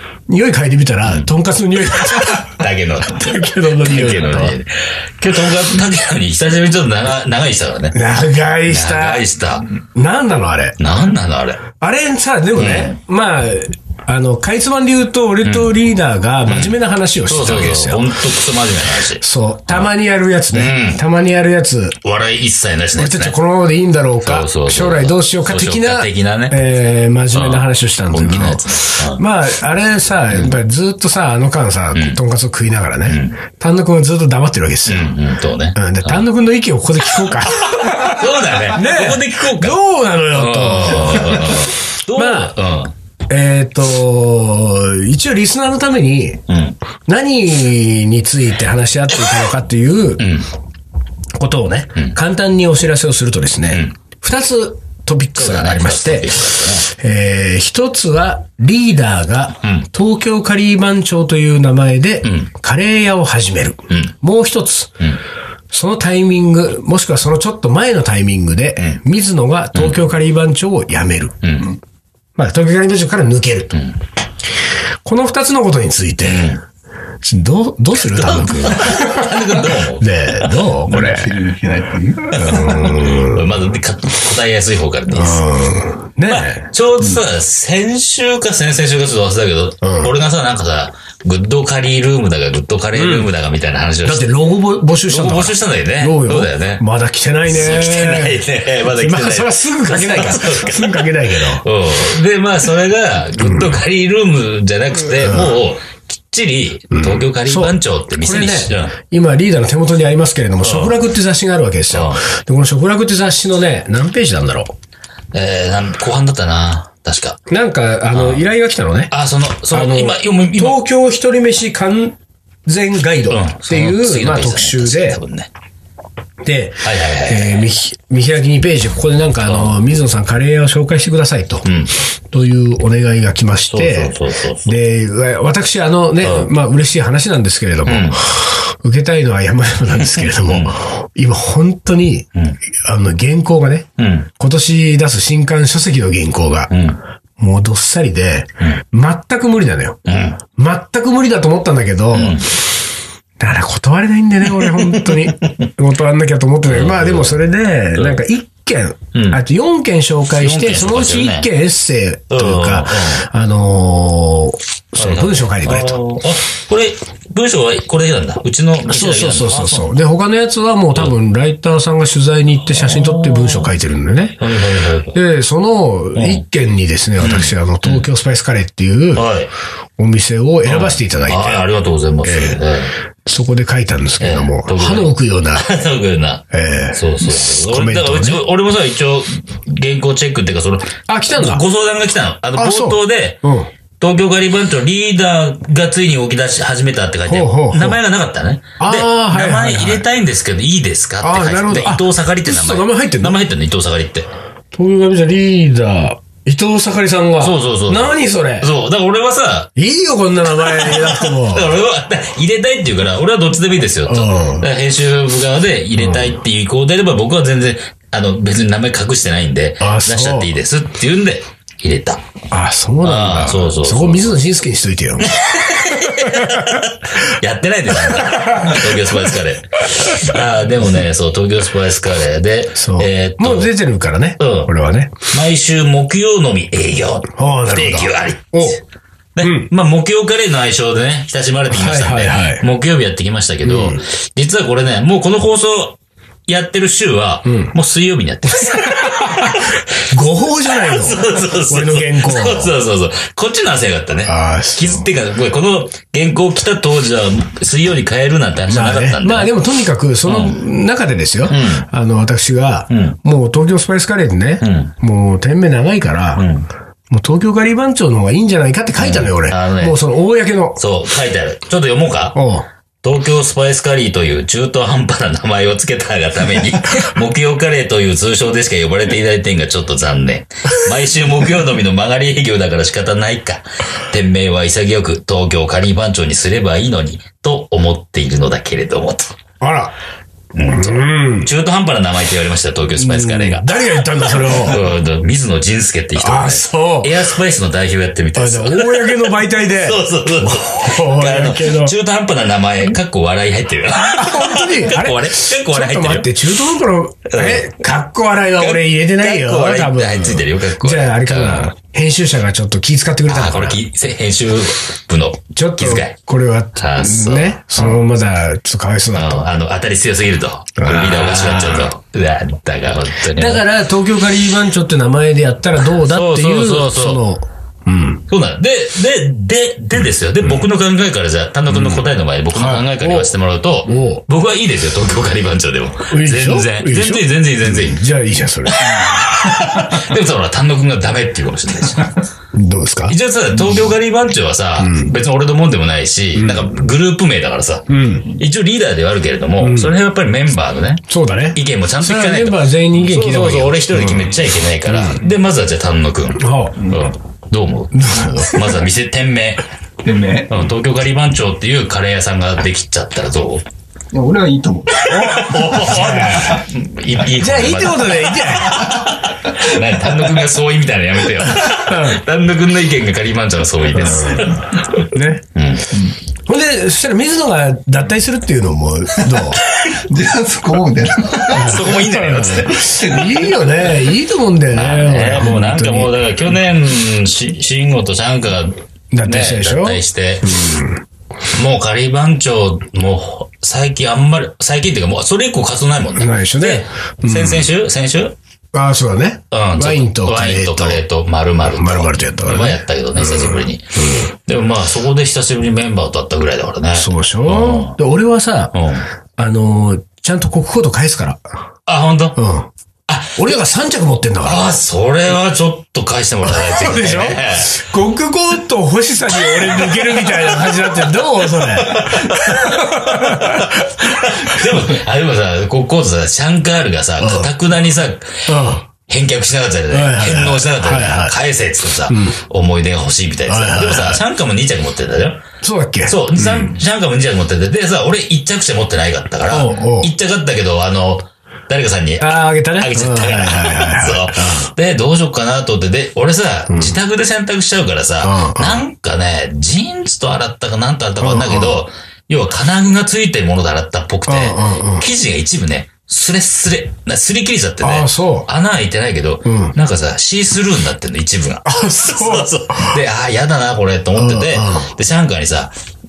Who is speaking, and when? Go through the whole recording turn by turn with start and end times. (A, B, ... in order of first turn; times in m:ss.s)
0:00.3-0:04.6 A
0:01.0-0:01.3 B
0:02.1-0:09.8 B
0:07.9-0:09.2 A
0:09.9-0:10.8 A
0:10.8-0:11.6 B
0:11.8-0:18.2 A
0:12.5-0:13.0 B
0:15.4-0:15.8 B
0:16.5-0:19.9 B
0:19.2-0:22.0 A
0:20.5-0:21.0 B
0:22.0-0:23.4 B
0:23.0-0:35.1 A
0:24.2-0:26.6 B
0:27.3-0:29.2 B
0:30.3-0:30.6 B
0:31.9-0:32.2 B
0:33.1-0:33.4 B
0:34.8-0:36.2 B
0:35.7-0:42.5 A
0:37.4-0:42.9 B
0:43.3-0:46.4 A
0:46.5-0:46.8 B
0:47.0-0:50.3 A
0:50.2-0:50.5 B
0:51.4-1:05.0 A
0:53.7-0:53.9 B
0:55.4-0:56.9 B
0:59.6-0:59.9 B
1:02.2-1:02.5 B
1:05.7-1:11.4 A
1:09.7-1:10.0 B
1:11.4-1:11.7 B
1:12.4-1:13.8 A
1:15.0-1:16.5 A
1:16.2-1:16.6 B
1:17.2-1:21.3 A
1:18.1-1:21.2 B
1:20.9-1:23.1 C
1:22.3-1:25.4 B
1:22.3-1:23.6 A
1:25.1-1:26.7 A
1:26.3-1:34.3 B
1:29.8-1:30.1 A
1:32.9-1:33.3 A
1:34.0-1:41.6 A
1:35.0-1:36.8 B
1:37.5-1:49.0 B
1:43.4-1:43.8 A
1:45.1-1:45.5 A
1:46.9-1:54.7 A
1:50.6-1:51.0 B
1:51.9-1:52.2 B
1:55.3-1:57.4 B
1:57.5-1:59.1 A
1:58.1-1:58.5 B
1:59.1-2:00.8 B
1:59.7-2:05.2 A
2:03.3-2:05.5 B
2:06.4-2:11.6 A
2:06.8-2:07.7 B
2:09.4-2:09.8 B
2:11.6-2:11.9 B
2:12.3-2:26.7 A
2:13.7-2:14.7 B
2:16.2-2:16.5 B
2:17.8-2:18.2 B
2:20.0-2:20.8 B
2:24.0-2:24.3 B
2:26.7-2:27.0 B
2:27.4-2:32.4 A
2:30.0-2:30.4 B
2:32.1-2:32.5 B
2:33.4-2:46.0 A
2:34.6-2:35.7 B
2:36.6-2:37.4 B
2:39.1-2:39.4 B
2:40.3-2:41.5 B
2:42.3-2:43.3 B
2:45.0-2:49.9 B
2:48.8-2:54.4 A
2:52.7-2:53.7 B
2:54.4-2:55.2 B
2:55.1-2:59.2 A
2:56.1-2:56.4 B
2:57.2-2:58.1 B
2:59.1-2:59.5 B
3:00.0-3:01.7 A
3:00.6-3:02.9 B
3:02.2-3:02.6 A
3:03.2-3:05.7 A
3:04.2-3:13.4 B
3:06.5-3:08.4 A
3:11.1-3:11.6 A
3:12.6-3:13.7 A
3:14.0-3:24.3 B
3:17.3-3:18.0 A
3:18.8-3:20.0 A
3:21.2-3:23.4 A
3:24.7-3:28.7 A
3:27.4-3:29.7 B
3:29.8-3:31.7 A
3:30.5-3:42.2 B
3:34.1-3:34.7 A
3:36.0-3:36.3 A
3:39.8-3:40.5 A
3:42.5-3:46.8 A
3:43.0-3:44.4 B
3:45.2-3:53.7 B
3:48.0-3:49.2 A
3:50.0-3:50.3 A
3:52.8-3:55.1 A
3:54.4-3:54.7 B
3:55.3-3:58.8 B
3:57.3-3:58.8 A
3:59.4-4:10.0 B
3:59.4-3:59.7 A
4:01.7-4:02.6 A
4:03.6-4:04.0 A
4:07.4-4:07.7 A
4:08.6-4:12.7 A
4:10.7-4:19.5 B
4:14.2-4:15.1 A
4:18.7-4:26.4 A
4:20.2-4:20.6 B
4:21.5-4:21.9 B
4:22.9-4:23.2 B
4:24.6-4:24.9 B
4:26.4-4:26.7 B
4:27.1-4:30.8 A
4:29.0-4:30.0 B
4:30.8-4:32.4 B
4:32.3-4:32.7 A
4:33.0-4:49.3 B
4:49.6-4:50.0 A
4:50.5-5:06.3 B
4:50.6-4:51.5 A
4:53.0-4:54.8 A
4:56.2-4:57.3 A
4:58.4-5:01.9 A
5:03.9-5:13.8 A
5:07.3-5:07.7 B
5:08.6-5:11.7 B
5:13.3-5:16.2 B
5:15.5-5:19.5 A
5:16.8-5:18.0 B
5:19.1-5:23.6 B
5:20.8-5:21.9 A
5:23.3-5:28.2 A
5:25.8-5:27.2 B
5:28.3-5:38.0 B
5:31.7-5:33.3 A
5:33.8-5:34.2 A
5:36.1-5:39.2 A
5:38.7-5:42.1 B
5:42.5-5:43.1 A
5:43.1-5:59.6 B
5:44.8-5:45.2 A
5:46.3-5:46.7 A
5:47.9-5:48.3 A
5:49.6-5:50.0 A
5:51.1-5:55.2 A
5:56.4-5:56.8 A
5:57.9-5:58.8 A
6:00.0-6:00.6 C
6:00.5-6:03.6 B
6:04.1-6:06.6 C
6:05.1-6:15.9 B
6:05.1-6:06.6 A
6:07.4-6:08.9 A
6:08.7-6:09.1 C
6:11.6-6:12.2 A
6:13.9-6:14.6 A
6:15.1-6:15.4 A
6:16.4-6:19.6 A
6:19.2-6:21.8 C
6:21.5-6:23.0 B
6:21.5-6:26.1 A
6:22.7-6:23.5 C
6:24.7-6:30.7 B
6:29.1-6:31.0 A
6:31.5-6:38.3 B
6:36.2-6:37.7 A
6:38.7-6:41.0 A
6:39.5-6:48.0 B
6:41.7-6:44.3 A
6:46.9-6:48.7 A
6:48.7-6:49.1 B
6:49.4-6:51.4 A
6:51.8-6:52.4 B
6:52.4-6:52.7 A
6:53.1-6:53.5 B
6:53.4-6:54.7 A
6:54.4-6:57.8 B
6:56.4-7:04.7 A
7:01.8-7:08.5 B
7:07.2-7:07.5 A
7:08.4-7:08.8 A
7:09.0-7:15.4 B
7:09.9-7:11.4 A
7:12.1-7:12.4 A
7:13.5-7:14.2 A
7:15.6-7:16.8 A
7:16.0-7:45.7 B
7:19.5-7:20.1 A
7:22.2-7:24.7 A
7:26.7-7:27.0 A
7:28.2-7:28.8 A
7:31.2-7:31.8 A
7:34.3-7:35.1 A
7:37.8-7:38.5 A
7:39.4-7:39.7 A
7:41.6-7:43.0 A
7:44.2-7:44.9 A